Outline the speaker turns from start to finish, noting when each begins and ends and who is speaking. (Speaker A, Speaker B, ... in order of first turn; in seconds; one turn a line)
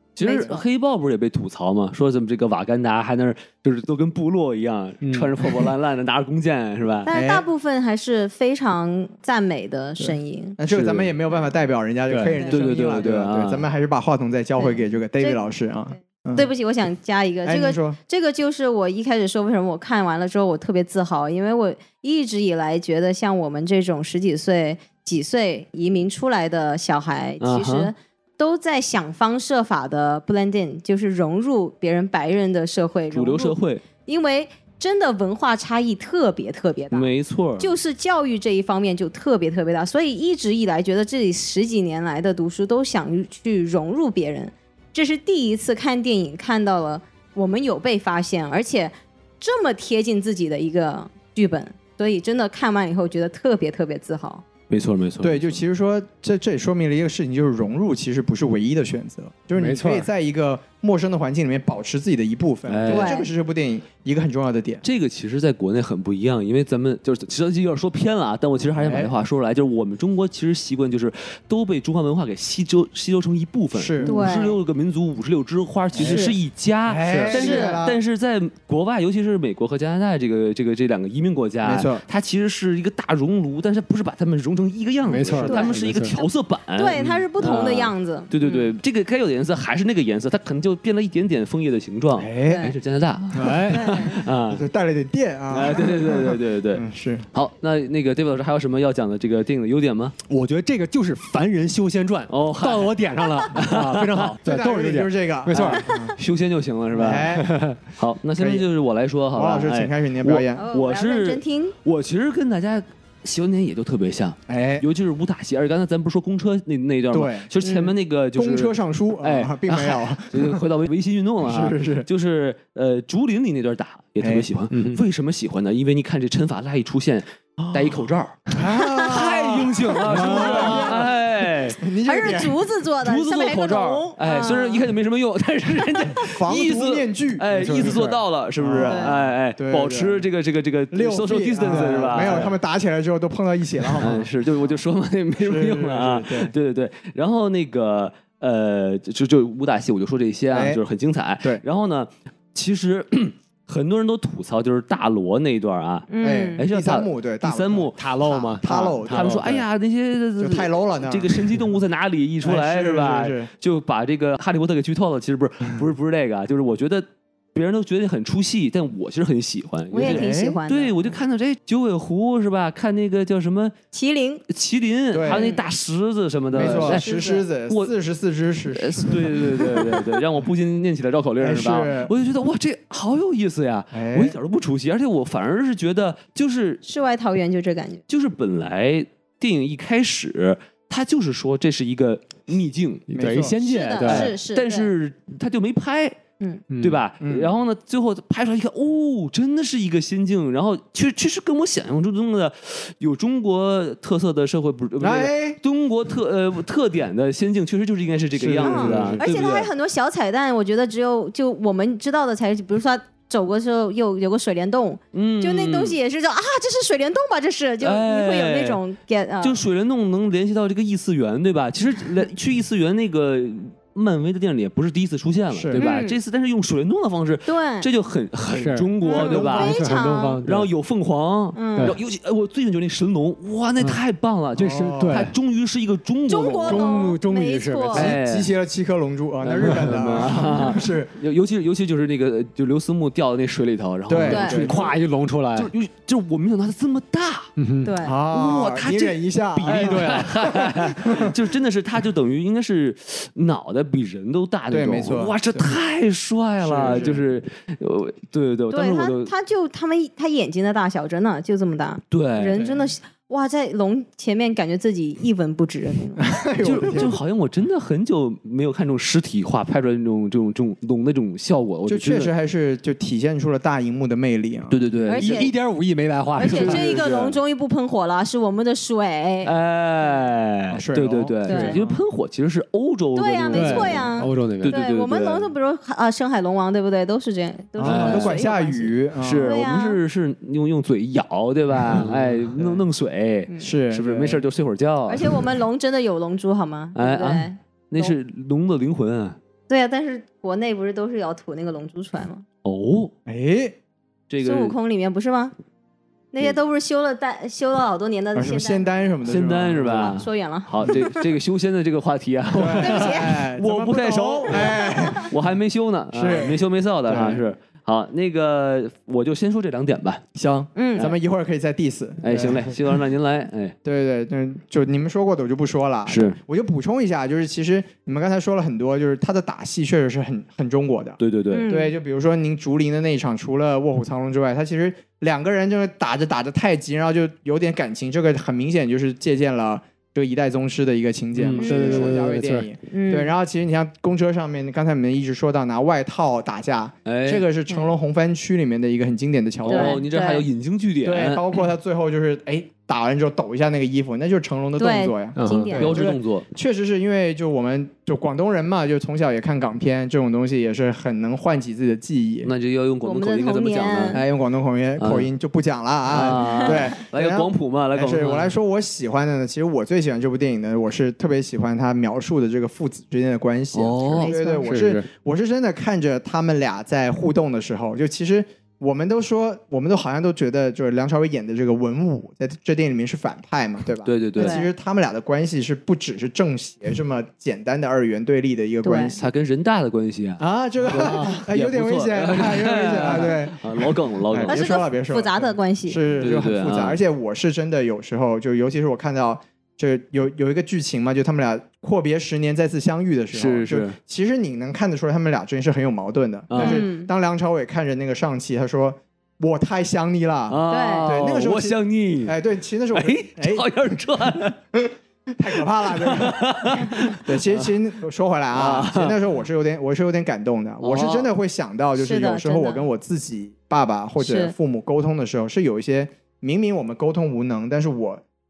Speaker A: 0.2-7.1
Speaker B: 0.2-0.5
Speaker C: 0.2-0.6
Speaker D: 5.0-5.7
Speaker B: 7.1-10.6
Speaker C: 7.1-7.5
Speaker C: 10.0-16.5
Speaker A: 10.7-11.1
Speaker D: 12.1-12.3
Speaker A: 12.5-13.7
Speaker B: 14.6-15.4
Speaker B: 16.4-54.4
Speaker C: 17.4-18.0
Speaker A: 27.4-27.9
Speaker A: 33.1-33.8
Speaker A: 36.9-37.7
Speaker A: 54.7-55.6
Speaker C: 55.2-64.8
Speaker D: 59.6-60.1
Speaker A: 62.7-63.2
Speaker B: 62.9-63.3
Speaker A: 64.8-94.7
Speaker C: 68.8-69.1
Speaker C: 73.7-74.3
Speaker B: 74.0-74.6
Speaker C: 75.9-76.3
Speaker C: 76.9-78.0
Speaker D: 77.0-77.3
Speaker B: 77.3-77.8
Speaker C: 81.6-82.0
Speaker D: 85.1-86.2
Speaker B: 85.4-88.7
Speaker C: 92.2-92.7
Speaker B: 92.4-92.7
Speaker C: 93.3-93.7
Speaker D: 93.4-94.0
Speaker B: 93.7-94.2
Speaker C: 94.5-97.2
Speaker A: 95.5-100.2
Speaker D: 100.3-105.8
Speaker A: 102.3-102.9
Speaker A: 103.5-104.3
Speaker C: 104.4-106.2
Speaker A: 105.5-107.4
Speaker C: 106.9-107.5
Speaker D: 107.4-107.8
Speaker A: 108.0-131.8
Speaker C: 108.4-108.7
Speaker C: 109.3-110.6
Speaker B: 110.6-111.7
Speaker C: 114.5-114.9
Speaker C: 117.1-117.5
Speaker C: 118.3-120.6
Speaker C: 121.4-122.1
Speaker C: 124.2-124.5
Speaker D: 124.7-125.0
Speaker C: 127.6-132.6
Speaker B: 130.4-131.0
Speaker B: 132.1-134.9
Speaker A: 133.0-142.6
Speaker C: 136.3-140.3
Speaker B: 138.8-139.2
Speaker C: 140.9-144.8
Speaker D: 141.7-142.0
Speaker A: 144.0-158.0
Speaker C: 145.4-146.5
Speaker C: 150.5-150.8
Speaker B: 156.1-156.6
Speaker C: 156.2-159.6
Speaker D: 158.0-159.5
Speaker A: 158.6-173.7
Speaker C: 160.4-161.6
Speaker C: 162.4-163.5
Speaker B: 169.9-170.9
Speaker C: 170.0-170.6
Speaker B: 173.9-174.4
Speaker A: 174.5-177.1
Speaker C: 175.1-175.5
Speaker B: 175.3-175.6
Speaker C: 176.5-180.0
Speaker B: 176.6-177.5
Speaker A: 178.7-186.8
Speaker C: 181.4-182.1
Speaker C: 183.9-184.4
Speaker B: 186.8-188.0
Speaker A: 188.1-193.1
Speaker D: 193.1-194.3
Speaker C: 193.1-193.6
Speaker B: 193.6-194.9
Speaker A: 194.0-196.2
Speaker D: 196.7-197.0
Speaker A: 196.8-209.7
Speaker C: 197.2-197.5
Speaker C: 205.0-205.6
Speaker C: 208.3-209.6
Speaker B: 208.6-219.6
Speaker A: 215.1-216.0
Speaker A: 217.8-218.8
Speaker A: 219.4-229.8
Speaker C: 225.5-225.8
Speaker B: 225.8-226.2
Speaker B: 227.5-227.9
Speaker D: 228.5-230.7
Speaker B: 229.0-230.4
Speaker C: 229.2-229.8
Speaker A: 230.4-237.0
Speaker B: 231.6-232.0
Speaker D: 234.6-235.3
Speaker C: 234.6-235.3
Speaker B: 236.3-238.1
Speaker D: 236.6-238.2
Speaker A: 237.9-238.5
Speaker C: 237.9-241.1
Speaker A: 239.4-245.0
Speaker D: 239.6-240.2
Speaker C: 244.1-244.9
Speaker B: 244.3-244.6
Speaker D: 244.4-245.7
Speaker A: 245.6-247.5
Speaker D: 247.6-247.9
Speaker B: 247.8-248.2
Speaker C: 248.0-251.3
Speaker A: 248.3-259.3
Speaker D: 249.7-250.3
Speaker C: 254.7-255.7
Speaker C: 256.6-257.2
Speaker B: 258.7-266.2
Speaker A: 262.1-262.6
Speaker C: 262.6-262.8
Speaker C: 266.2-267.2
Speaker A: 266.6-272.3
Speaker C: 271.9-274.8
Speaker A: 274.7-275.5
Speaker B: 275.1-275.5
Speaker D: 275.1-276.9
Speaker B: 276.4-279.5
Speaker A: 276.4-277.3
Speaker C: 277.0-277.3
Speaker A: 279.4-285.5
Speaker C: 280.7-282.0
Speaker B: 281.5-281.8
Speaker B: 283.1-290.0
Speaker D: 283.5-284.8
Speaker C: 287.8-289.5
Speaker A: 287.8-288.4
Speaker A: 289.2-295.4
Speaker D: 291.9-292.4
Speaker C: 293.6-294.4
Speaker B: 295.1-298.1
Speaker A: 296.9-299.4
Speaker B: 299.7-302.4
Speaker A: 302.6-303.1
Speaker C: 303.3-303.8
Speaker A: 304.3-304.8
Speaker B: 304.4-305.5
Speaker B: 306.3-308.9
Speaker C: 308.4-310.2
Speaker A: 309.3-320.2
Speaker B: 310.1-311.2
Speaker C: 312.5-315.3
Speaker B: 312.8-313.4
Speaker B: 314.5-315.3
Speaker C: 316.1-317.4
Speaker C: 320.4-322.8
Speaker B: 320.8-321.1
Speaker A: 322.2-323.8
Speaker C: 323.8-350.0
Speaker A: 326.1-326.4
Speaker A: 331.2-331.7
Speaker B: 331.5-331.9
Speaker D: 341.4-342.7
Speaker B: 341.6-342.1
Speaker B: 342.9-343.3
Speaker A: 347.1-347.4
Speaker A: 349.6-351.6
Speaker B: 349.7-350.5
Speaker C: 351.0-362.5
Speaker B: 354.8-356.0
Speaker D: 355.4-355.8
Speaker A: 355.8-356.5
Speaker A: 362.4-364.3
Speaker B: 363.0-364.2
Speaker C: 364.1-389.2
Speaker A: 365.0-365.3
Speaker A: 366.1-368.6
Speaker A: 373.7-374.3
Speaker B: 374.2-374.7
Speaker D: 374.6-375.1
Speaker A: 384.1-384.6
Speaker B: 384.4-384.7
Speaker B: 388.8-389.1
Speaker A: 389.2-394.6
Speaker C: 390.4-413.7
Speaker B: 394.5-396.0
Speaker A: 396.2-397.0
Speaker A: 403.3-403.9
Speaker A: 406.5-406.9
Speaker B: 406.6-407.1
Speaker A: 410.5-412.4
Speaker B: 410.7-411.1
Speaker A: 412.9-414.6
Speaker C: 414.8-428.2
Speaker A: 415.9-417.7
Speaker A: 418.5-419.2
Speaker A: 420.8-421.3
Speaker B: 422.0-422.8
Speaker B: 424.2-424.5